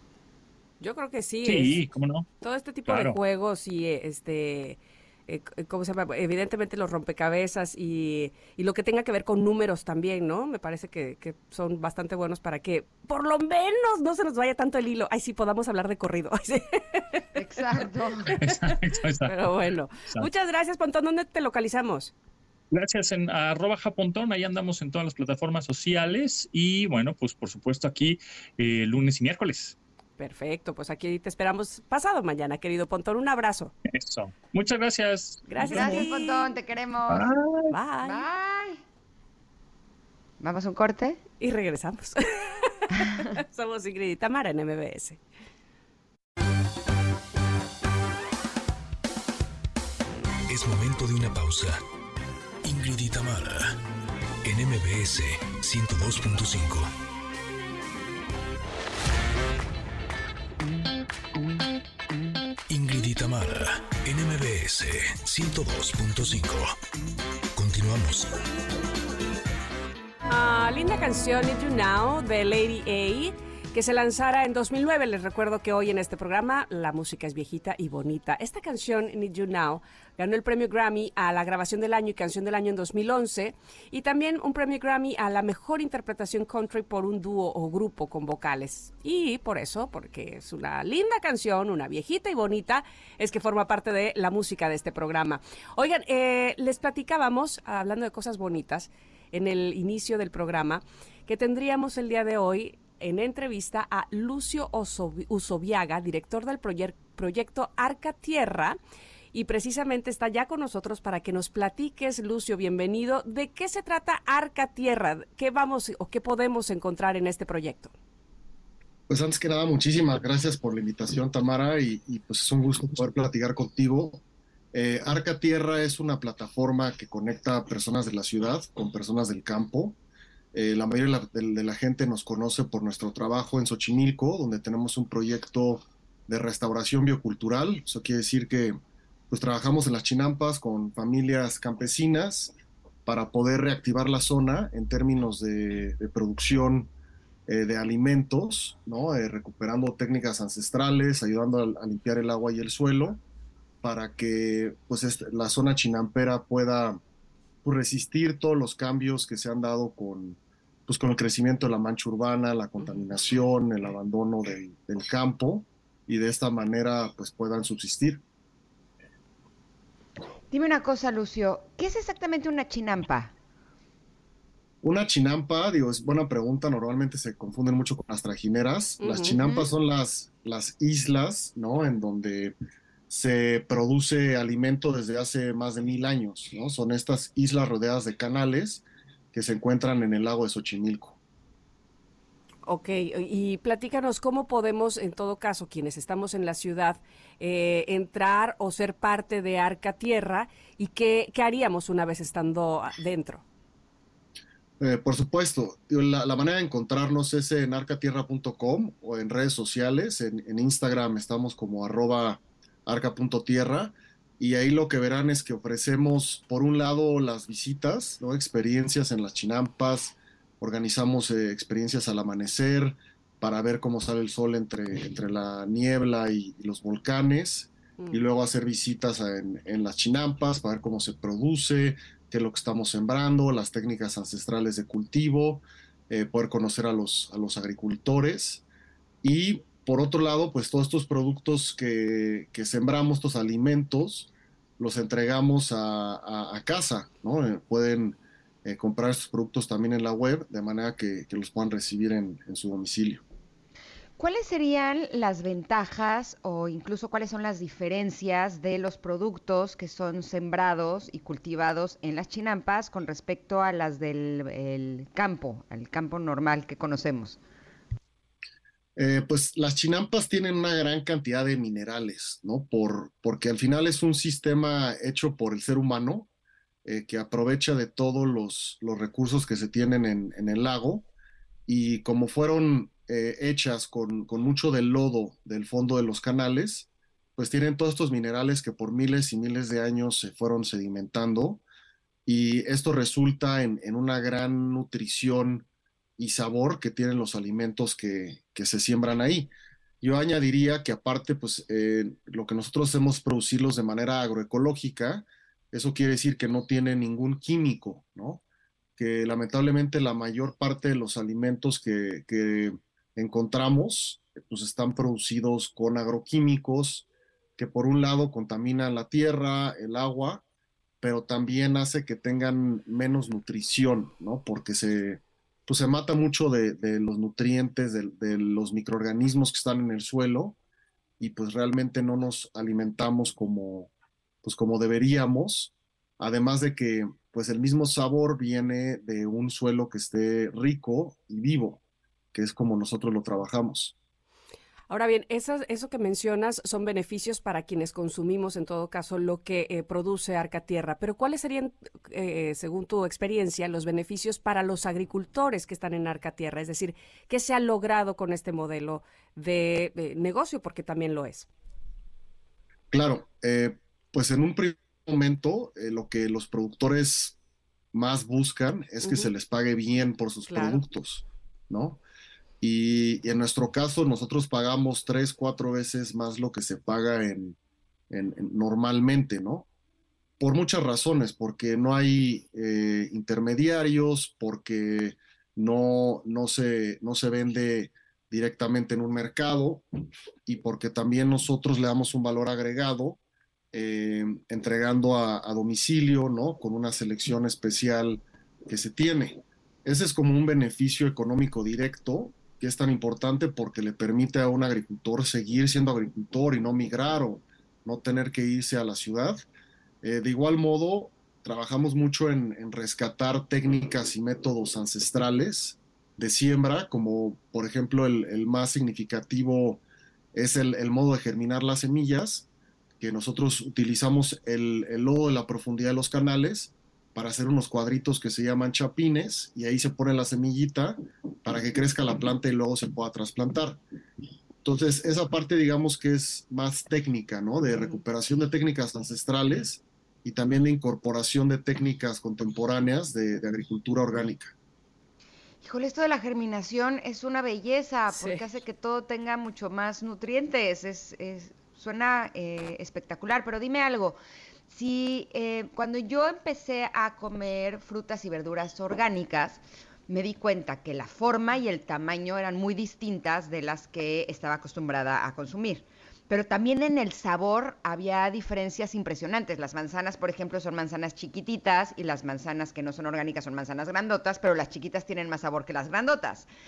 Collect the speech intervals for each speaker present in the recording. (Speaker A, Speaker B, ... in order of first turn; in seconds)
Speaker A: 0.8-1.8, 2.4-17.2, 17.8-18.7, 19.3-22.1, 30.2-33.7, 35.5-36.5, 37.7-38.3, 41.4-45.2, 70.3-108.8, 109.3-117.9, 179.0-179.4, 192.7-203.4, 228.0-228.2, 344.9-361.5, 369.0-369.3, 370.5-370.8, 448.1-448.4
Speaker B: 1.4-2.3, 2.9-3.2, 18.4-19.5, 22.7-29.8, 33.9-36.1, 37.1-37.7
Speaker C: 17.4-18.3, 35.7-37.3, 38.0-38.8, 40.4-41.2, 170.5-173.3, 179.4-179.7, 254.2-267.4, 445.6-454.2, 454.7-476.5
Speaker D: 50.5-51.8, 52.6-53.8, 54.4-56.9, 62.7-66.8, 67.5-68.3
Speaker E: 119.1-130.0, 130.5-138.8, 139.3-142.5, 143.1-146.9, 147.5-153.2, 153.8-157.0, 157.6-168.2, 174.8-182.6, 183.1-191.2, 204.8-238.6, 239.2-253.2, 269.0-276.3, 276.9-281.1, 281.7-291.6, 292.3-295.7, 296.2-308.4, 309.0-320.4, 321.0-330.6, 331.2-333.9, 334.4-341.8, 342.3-343.9, 362.9-367.4, 367.9-372.0, 372.6-377.6, 378.1-379.7, 380.4-389.9, 390.5-393.2, 393.7-409.4, 410.0-419.8, 420.3-422.5, 423.0-433.8, 434.6-444.5